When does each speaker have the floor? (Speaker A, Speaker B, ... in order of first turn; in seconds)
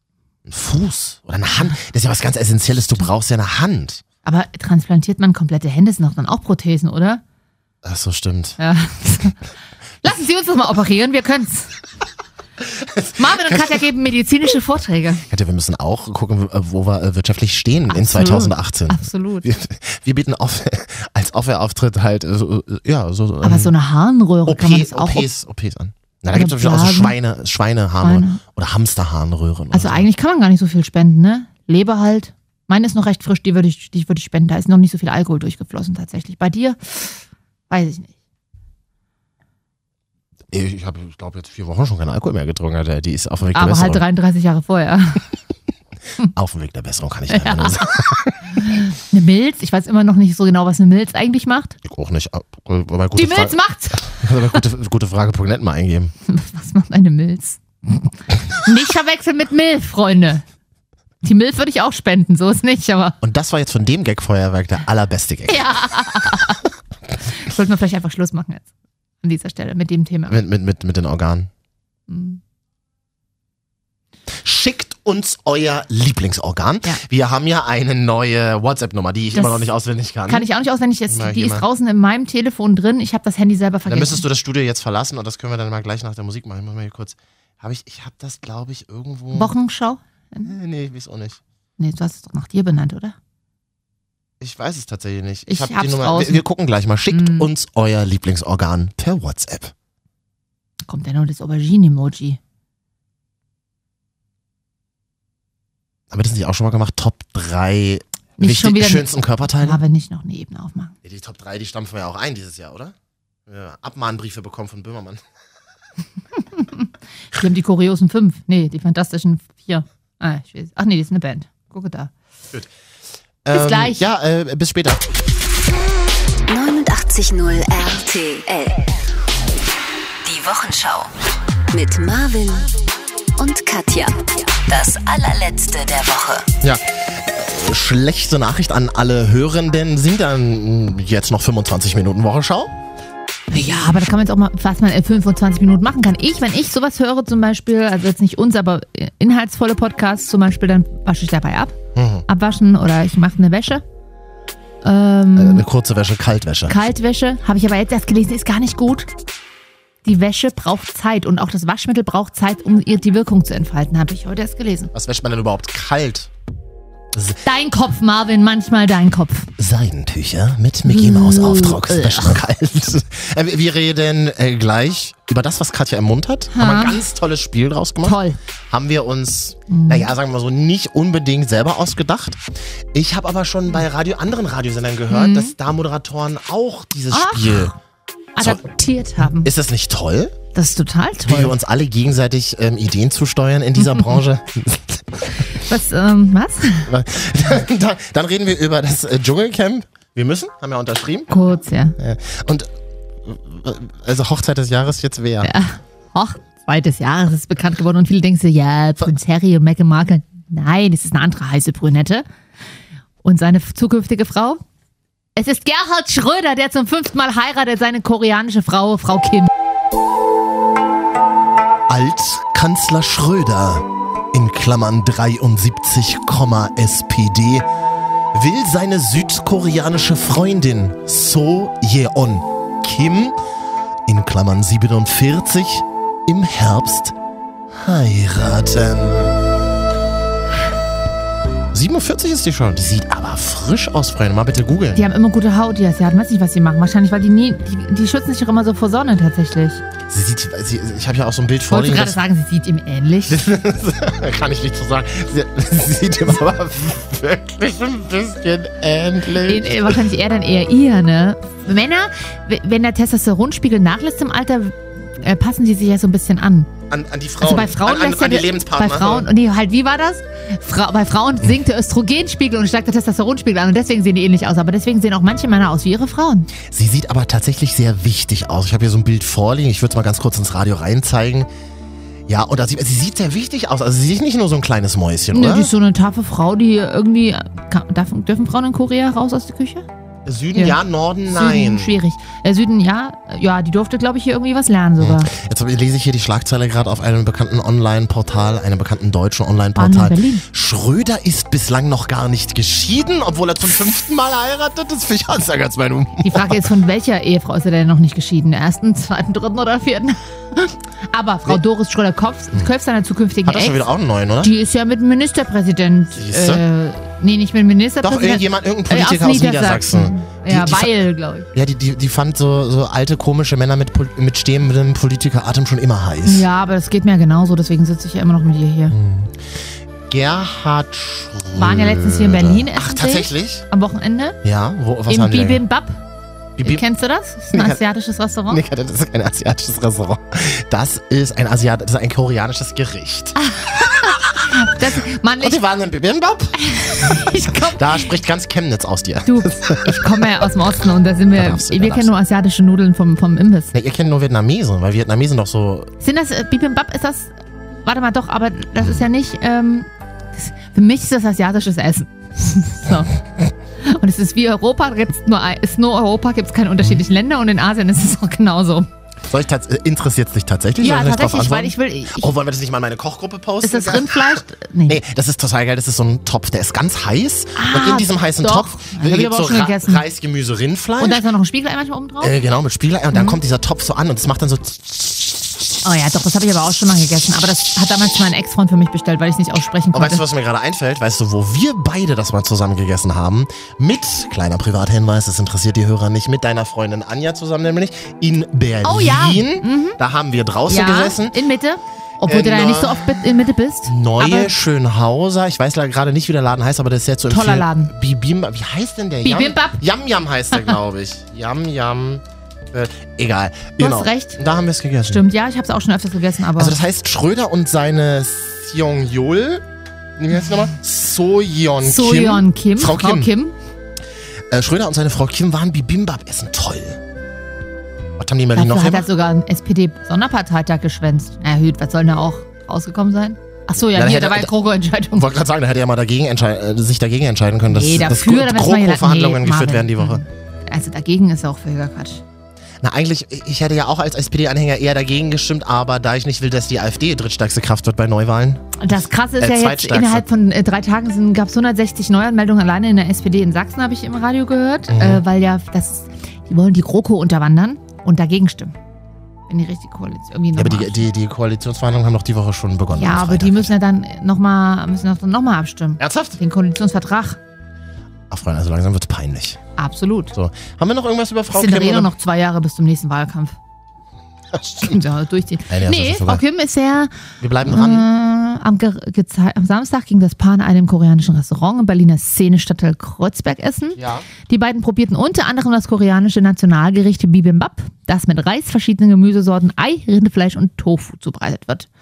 Speaker A: 0.5-4.0, 7.8-8.6, 12.6-13.8, 15.3-23.7, 24.5-30.1, 40.5-44.0, 46.3-48.4, 51.8-56.1, 63.2-65.7, 70.3-71.5, 74.4-80.5, 81.1-81.7, 83.9-89.5, 90.4-91.4, 94.4-99.7, 106.1-109.8, 111.0-113.0, 113.5-115.2, 123.5-125.0, 136.6-142.7, 151.9-152.2, 155.3-156.8, 164.9-166.3, 167.1-167.4, 169.6-182.4, 182.9-187.7, 189.3-190.3, 191.2-195.4, 196.9-201.3, 202.0-202.7, 203.2-205.5, 221.9-227.7, 228.3-233.4, 234.1-237.2, 237.7-239.4, 241.7-245.1, 250.1-252.2, 253.3-260.0, 266.9-269.3, 276.6-281.5, 282.3-285.7, 290.2-292.0, 295.0-306.7, 313.4-314.5, 316.1-316.6, 318.0-321.0, 321.5-326.5, 328.9-329.5, 330.1-333.6, 334.4-335.6, 336.6-336.8, 337.5-337.8, 338.5-343.4, 345.4-350.4, 351.3-352.2, 353.7-355.9, 369.3-381.2, 382.2-385.2, 389.9-401.4, 402.2-403.3, 403.9-415.2, 416.6-419.6, 420.2-423.3, 424.5-427.0, 428.2-429.1, 433.9-434.5, 435.1-440.2, 442.8-450.2, 454.9-455.2, 460.5-463.7, 466.0-466.4, 468.3-469.6, 470.3-472.1, 474.5-475.0, 475.7-476.4, 477.4-478.1, 484.0-484.3
Speaker B: 4.2-7.2, 8.6-9.4, 10.0-11.7, 13.2-15.2, 17.9-19.5, 23.4-25.3, 26.3-27.2, 28.0-28.4, 29.7-38.1, 43.5-45.2, 47.3-47.9, 48.6-51.8, 53.1-54.6, 56.3-60.4, 61.2-63.2, 65.5-66.6, 67.3-68.7, 69.2-70.4, 72.1-72.4, 79.3-79.7, 80.3-84.2, 89.3-90.5, 91.8-93.2, 95.5-96.4, 97.1-97.5, 100.9-102.4, 108.4-110.9, 116.5-122.1, 123.5-124.0, 143.5-151.8, 152.3-153.8, 154.8-155.7, 156.7-159.1, 160.1-164.9, 167.4-169.5, 170.9-172.4, 176.5-177.0, 178.0-178.4, 179.7-180.1, 185.1-185.5, 187.1-187.8, 188.4-189.5, 190.5-191.6, 195.5-196.9, 201.3-202.0, 205.4-212.3, 213.2-214.6, 215.4-219.5, 244.9-249.8, 251.7-253.4, 259.4-266.7, 267.4-276.5, 285.3-289.9, 291.3-295.3, 299.8-300.4, 306.2-313.8, 314.4-321.5, 326.2-329.0, 331.6-334.4, 335.1-336.0, 336.6-338.6, 343.4-345.6, 346.6-348.1, 349.2-353.7, 356.0-357.3, 357.8-363.2, 363.8-368.9, 370.8-372.3, 373.6-375.0, 377.6-380.0, 381.0-382.3, 383.1-383.4, 385.8-390.2, 398.8-400.0, 400.7-404.5, 407.3-407.9, 409.2-409.8, 413.8-414.4, 415.1-416.8, 421.8-423.6, 428.6-435.3, 437.7-442.2, 448.8-458.8, 459.5-461.1, 462.9-467.4, 469.8-470.3, 471.5-473.6, 474.8-477.1, 477.6-491.9
Speaker C: 126.5-128.9, 130.2-131.1, 131.7-132.7, 133.4-136.5